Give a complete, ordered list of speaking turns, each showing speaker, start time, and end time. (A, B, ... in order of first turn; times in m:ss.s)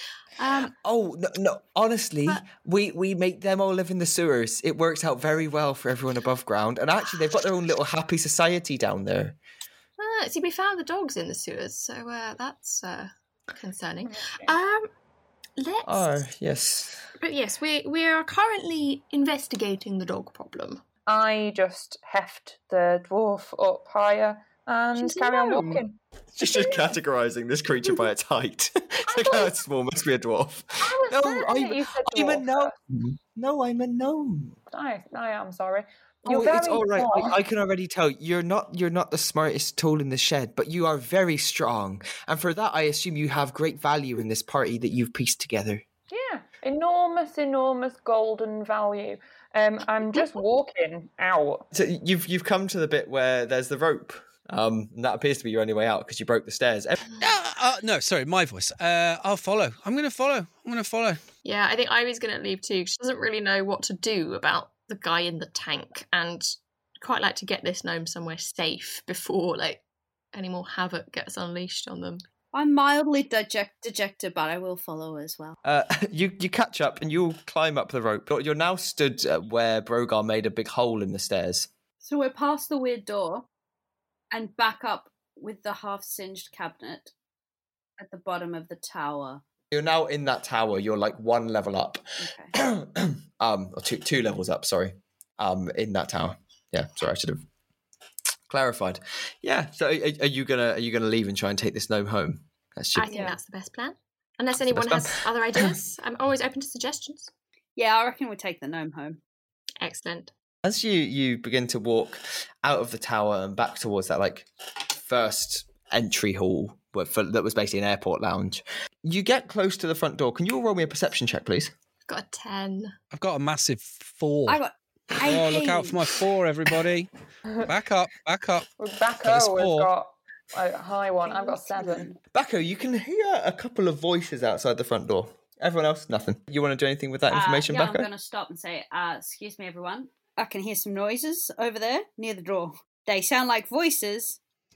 0:00.4-0:00.7 A
0:00.4-0:09.4 B
0:10.0-0:14.9 A
0:14.1-0:14.5 C
0:15.6-0:16.2 A
0:15.8-0:17.1 B
0:17.2-0:20.8 A
0:21.1-0:26.0 C
0:24.9-0:25.8 A
0:26.4-0:34.6 B
0:29.1-0:29.5 C
0:30.8-0:32.8 C
0:34.7-0:37.4 C
0:36.2-0:45.8 B
0:46.1-0:51.6 C
0:51.7-0:57.0 B
0:57.2-1:01.2 D
1:01.4-1:09.8 A
1:10.3-1:12.2 A
1:12.5-1:15.6 E
1:15.6-1:21.7 B
1:22.0-1:23.5 E
1:24.3-1:27.1 E
1:28.0-1:29.4 E
1:29.7-1:37.4 B
1:32.2-1:32.5 E
1:38.5-1:43.1 B
1:42.9-1:47.3 A
1:44.6-1:45.7 B
1:47.8-1:49.2 E
1:49.8-1:50.3 A
1:50.6-2:01.7 B
2:02.1-2:02.9 A
2:03.1-2:04.6 D
2:04.5-2:06.1 E
2:05.2-2:07.1 D
2:07.6-2:08.7 D
2:08.8-2:12.1 C
2:09.2-2:09.9 D
2:11.2-2:12.2 E
2:12.3-2:18.1 B
2:17.3-2:24.4 E